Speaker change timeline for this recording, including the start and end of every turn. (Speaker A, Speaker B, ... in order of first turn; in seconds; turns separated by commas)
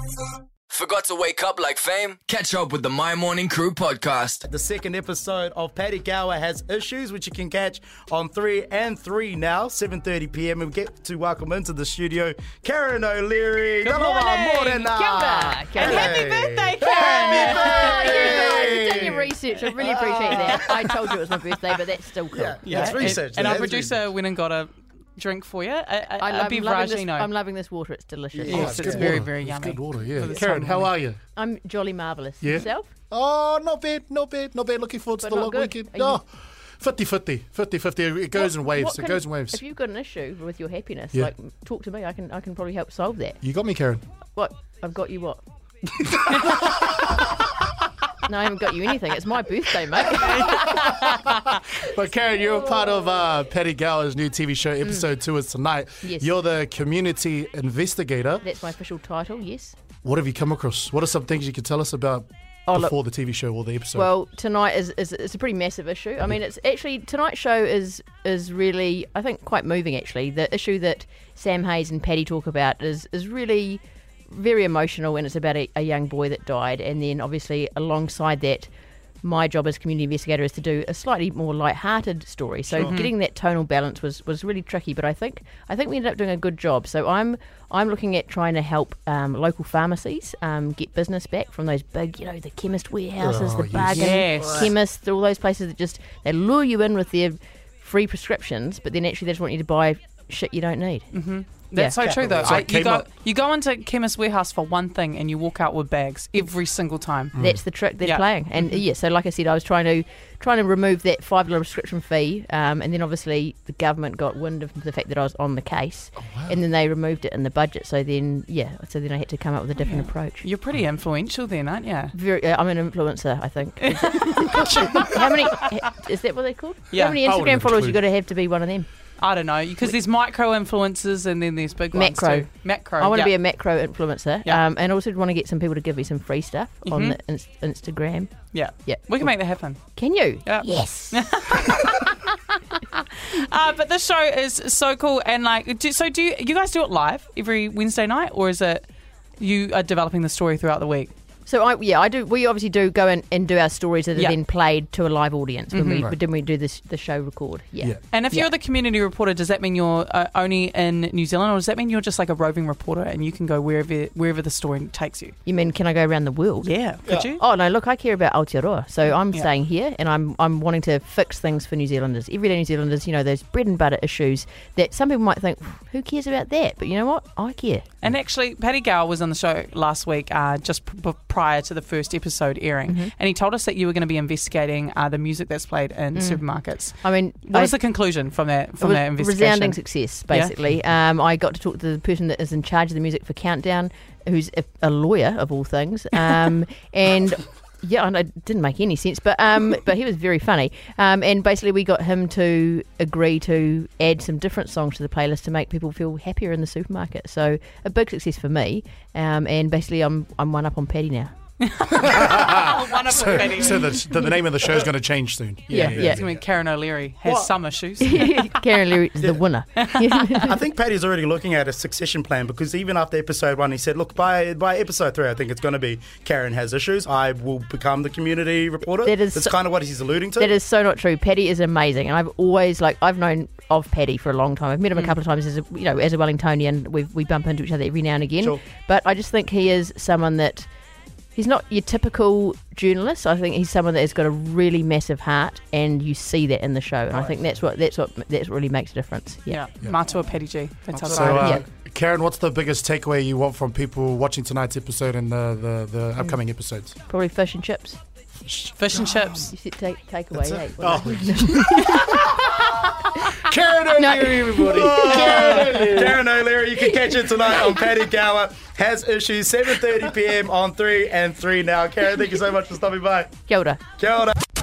Speaker A: 0.7-4.4, Speaker B: 4.4-19.3, Speaker C: 13.8-15.0, Speaker D: 14.9-16.2, Speaker C: 15.7-18.5, Speaker D: 16.9-23.2, Speaker B: 19.8-20.7, Speaker C: 19.9-20.9, Speaker B: 22.3-24.0, Speaker C: 22.6-27.3, Speaker D: 26.2-29.1, Speaker B: 28.3-29.1, Speaker C: 28.5-30.9, Speaker E: 28.5-31.2, Speaker D: 31.3-32.9, Speaker E: 32.4-36.3, Speaker D: 35.2-36.2, Speaker E: 36.8-39.6, Speaker D: 38.3-43.4, Speaker E: 43.4-44.0, Speaker D: 44.3-45.4, Speaker E: 46.1-47.2, Speaker D: 48.2-50.7, Speaker C: 50.2-51.4, Speaker E: 50.3-58.5, Speaker D: 56.0-56.3, Speaker D: 58.4-59.8, Speaker E: 60.0-64.1, Speaker D: 62.7-62.9, Speaker D: 63.9-78.7, Speaker D: 79.2-101.1, Speaker C: 82.8-83.1, Speaker E: 93.2-94.2, Speaker C: 93.9-94.7, Speaker C: 101.1-107.4, Speaker B: 102.0-102.6, Speaker E: 102.2-103.1, Speaker E: 107.3-107.6, Speaker D: 107.4-120.4, Speaker C: 107.9-108.2, Speaker E: 116.2-116.5, Speaker C: 119.8-122.1, Speaker D: 122.1-128.9, Speaker C: 124.1-125.1, Speaker C: 126.9-127.2, Speaker E: 127.2-128.0, Speaker C: 129.2-133.3, Speaker D: 131.9-139.3, Speaker C: 136.8-137.2, Speaker C: 138.5-139.8, Speaker D: 139.9-141.9, Speaker C: 140.4-148.8, Speaker C: 149.4-151.1, Speaker D: 151.4-158.5, Speaker C: 155.7-156.1, Speaker C: 158.1-165.3, Speaker D: 165.4-177.9, Speaker C: 166.6-167.4, Speaker C: 178.0-190.5, Speaker D: 182.9-183.1, Speaker D: 186.1-187.8, Speaker D: 188.8-211.3, Speaker C: 211.7-214.2, Speaker E: 212.0-216.4, Speaker D: 215.7-216.2, Speaker C: 215.7-218.6, Speaker D: 218.0-220.6, Speaker C: 219.8-220.3, Speaker B: 220.4-230.5, Speaker D: 229.0-229.5, Speaker D: 230.3-240.7, Speaker D: 241.3-249.7, Speaker C: 249.5-251.6, Speaker E: 250.9-256.9, Speaker D: 251.2-251.6, Speaker D: 257.0-258.0, Speaker E: 258.4-258.7, Speaker C: 258.8-259.5, Speaker D: 259.0-262.6, Speaker E: 260.4-262.5, Speaker D: 263.1-266.0, Speaker E: 263.4-266.2, Speaker B: 265.5-273.3, Speaker D: 273.5-273.8, Speaker B: 274.0-274.4